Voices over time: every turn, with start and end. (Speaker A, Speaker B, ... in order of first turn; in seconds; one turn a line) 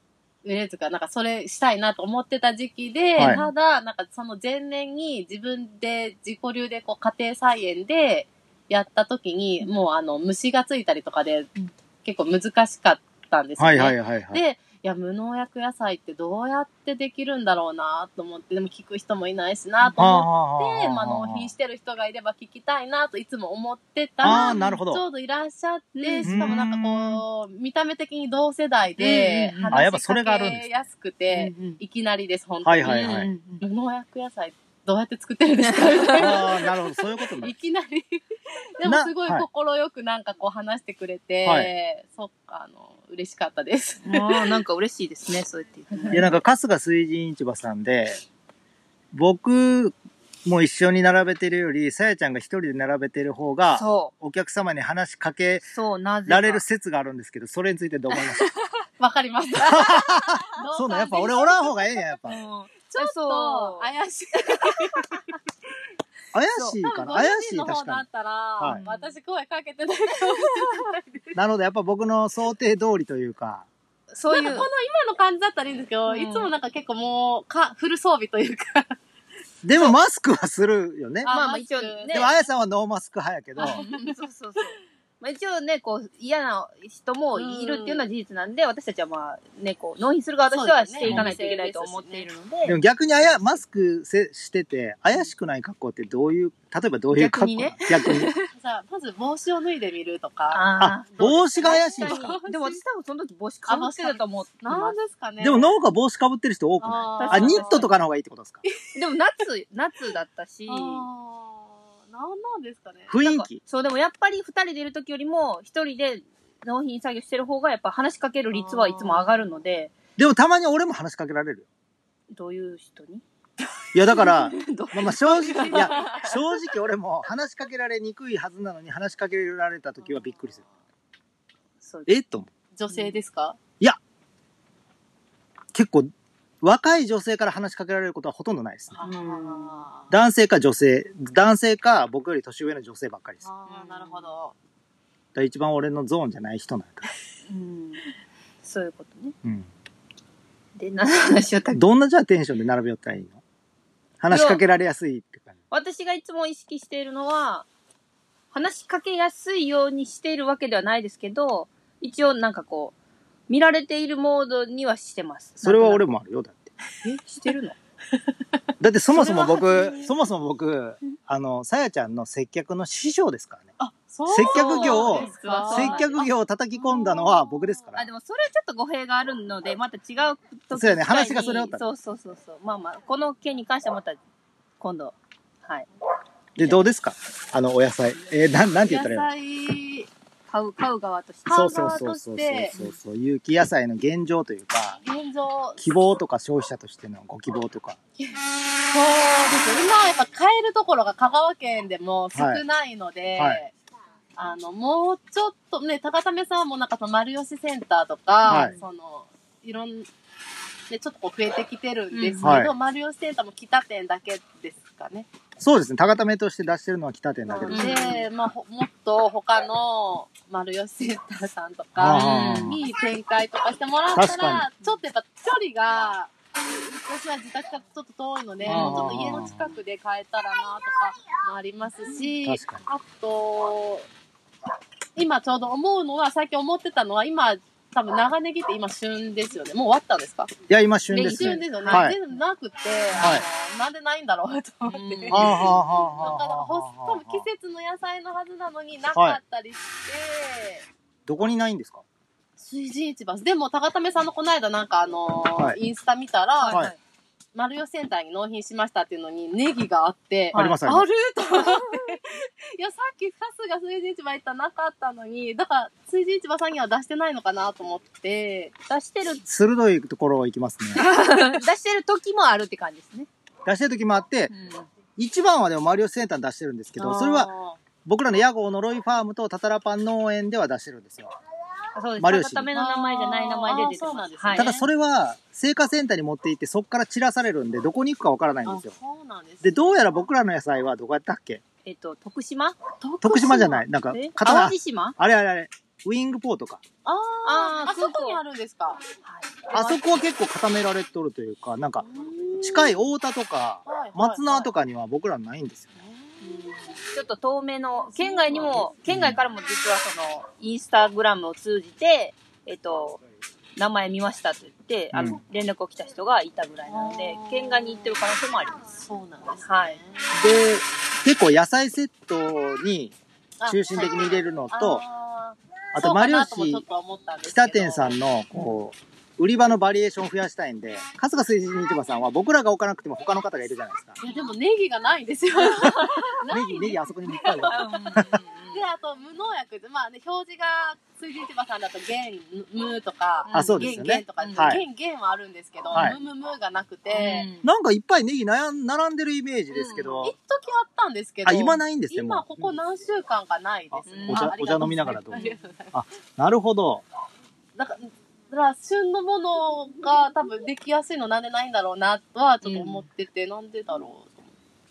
Speaker A: 0.4-38.2
Speaker B: 3.2-3.5
Speaker C: 13.6-14.4
Speaker B: 19.8-20.1
Speaker C: 20.0-21.5
Speaker C: 24.2-25.0
Speaker B: 24.2-24.8
Speaker B: 26.0-26.5
Speaker C: 26.2-27.2
Speaker B: 29.0-29.8
Speaker C: 29.7-30.7
Speaker B: 31.3-31.8
Speaker C: 32.6-33.3
Speaker B: 32.8-33.6
Speaker B: 35.6-36.3
Speaker C: 36.2-37.5
Speaker A: 38.8-44.6
Speaker C: 38.8-39.5
Speaker C: 41.4-41.7
Speaker B: 44.0-46.4
Speaker C: 46.1-48.2
Speaker C: 49.1-55.7
Speaker B: 53.7-54.1
Speaker B: 55.7-56.6
Speaker C: 56.3-58.5
Speaker A: 59.0-62.0
Speaker C: 59.6-62.4
Speaker B: 59.7-60.4
Speaker B: 62.3-63.9
Speaker A: 62.9-65.3
Speaker B: 64.6-65.0
Speaker C: 66.3-68.0
Speaker B: 66.5-66.8
Speaker A: 66.8-71.4
Speaker C: 68.6-68.8
Speaker B: 68.7-69.2
Speaker C: 71.3-73.7
Speaker B: 74.1-74.7
Speaker A: 74.3-79.0
Speaker B: 76.1-76.5
Speaker C: 79.6-81.3
Speaker A: 81.2-82.3
Speaker B: 81.2-82.3
Speaker C: 82.1-83.8
Speaker A: 83.6-84.1
Speaker B: 83.6-92.8
Speaker A: 87.3-88.0
Speaker A: 90.5-92.3
Speaker C: 91.0-91.3
Speaker C: 92.6-98.3
Speaker B: 97.1-98.5
Speaker A: 98.5-102.8
Speaker B: 100.5-105.0
Speaker C: 100.8-102.4
Speaker A: 103.7-105.8
Speaker C: 105.4-108.6
Speaker A: 106.8-107.9
Speaker B: 107.2-107.9
Speaker B: 108.9-111.0
Speaker A: 110.7-113.2
Speaker C: 113.1-113.6
Speaker B: 113.2-119.9
Speaker A: 118.5-119.5
Speaker C: 120.2-121.7
Speaker B: 122.3-123.2
Speaker C: 123.9-130.6
Speaker B: 124.1-126.4
Speaker A: 125.4-126.1
Speaker B: 131.8-132.1
Speaker C: 132.1-132.5
Speaker A: 132.7-133.6
Speaker B: 132.9-133.2
Speaker C: 135.7-136.1
Speaker C: 136.6-139.0
Speaker A: 138.9-140.1
Speaker B: 139.0-139.8
Speaker C: 140.1-143.4
Speaker A: 143.4-144.5
Speaker B: 143.7-144.3
Speaker C: 145.3-147.1
Speaker B: 147.5-148.1
Speaker B: 148.6-149.3
Speaker C: 149.4-149.7
Speaker B: 150.8-151.8
Speaker C: 151.7-153.4
Speaker C: 154.2-155.5
Speaker B: 154.3-154.6
Speaker B: 155.7-157.7
Speaker B: 158.5-162.9
Speaker B: 163.5-166.1
Speaker C: 165.6-166.7
Speaker B: 167.0-167.8
Speaker C: 168.8-173.7
Speaker A: 169.2-169.9
Speaker B: 169.2-170.1
Speaker A: 173.8-177.8
Speaker C: 174.3-178.0
Speaker B: 174.5-176.1
Speaker B: 177.9-184.2
Speaker C: 180.7-181.9
Speaker B: 184.8-185.8
Speaker C: 186.6-189.3
Speaker B: 186.6-186.8
Speaker A: 188.8-190.1
Speaker B: 190.5-191.8
Speaker A: 191.5-192.8
Speaker C: 191.5-195.0
Speaker A: 195.0-195.9
Speaker C: 195.8-198.0
Speaker A: 198.2-203.7
Speaker C: 202.3-202.6
Speaker A: 204.4-210.1
Speaker C: 208.5-208.7
Speaker B: 208.5-208.8
Speaker A: 210.9-215.3
Speaker B: 212.1-212.6
Speaker C: 212.4-212.7
Speaker C: 215.6-218.1
Speaker A: 217.5-234.1
Speaker B: 217.7-218.2
Speaker C: 221.9-222.8
Speaker B: 222.1-222.8
Speaker C: 224.1-224.7
Speaker B: 228.6-229.2
Speaker C: 228.7-229.7
Speaker C: 232.4-232.8
Speaker A: 235.2-240.5
Speaker C: 240.7-242.2
Speaker B: 241.1-242.1
Speaker A: 241.2-250.9
Speaker C: 243.2-243.4
Speaker B: 244.9-245.8
Speaker C: 245.3-247.5
Speaker C: 249.1-249.4
Speaker C: 251.2-252.0
Speaker A: 252.6-256.9
Speaker B: 256.6-257.0
Speaker A: 257.5-268.8
Speaker B: 260.5-260.8
Speaker C: 260.5-261.1
Speaker B: 268.9-269.4
Speaker C: 269.5-271.0
Speaker B: 270.9-273.3
Speaker C: 273.6-274.5
Speaker B: 274.5-274.9
Speaker C: 275.2-277.5
Speaker A: 277.0-277.8
Speaker C: 278.0-281.4
Speaker B: 281.9-284.8
Speaker C: 282.2-282.7
Speaker A: 282.7-284.8
Speaker C: 284.5-288.9
Speaker A: 288.6-289.8
Speaker C: 289.6-291.6
Speaker B: 291.8-292.8
Speaker A: 293.0-293.8
Speaker C: 293.2-296.8
Speaker B: 294.1-295.2
Speaker A: 297.0-299.0
Speaker B: 297.4-298.4
Speaker B: 299.2-300.0
Speaker C: 299.7-302.1
Speaker A: 302.0-303.0
Speaker C: 302.6-306.0
Speaker A: 303.9-304.7
Speaker A: 306.0-306.7
Speaker B: 306.4-313.2
Speaker A: 308.2-308.9
Speaker C: 309.1-309.4
Speaker B: 313.8-318.8
Speaker C: 315.1-315.4
Speaker A: 316.9-318.1
Speaker A: 318.9-320.3
Speaker B: 319.6-320.0
Speaker C: 320.3-323.1
Speaker A: 323.6-328.2
Speaker C: 323.7-325.0
Speaker C: 325.9-326.8
Speaker C: 327.4-334.2
Speaker A: 334.2-337.9
Speaker B: 335.7-336.4
Speaker C: 336.5-338.4
Speaker B: 337.6-338.9
Speaker A: 338.7-347.5
Speaker B: 343.5-344.8
Speaker C: 343.5-344.8
Speaker B: 345.9-346.2
Speaker C: 345.9-346.2
Speaker B: 347.1-347.7
Speaker C: 347.6-350.3
Speaker B: 349.7-350.3
Speaker A: 350.2-355.9
Speaker C: 351.4-352.4
Speaker C: 353.9-355.4
Speaker B: 354.1-355.6
Speaker C: 355.9-357.0
Speaker A: 357.8-364.5
Speaker B: 362.6-363.0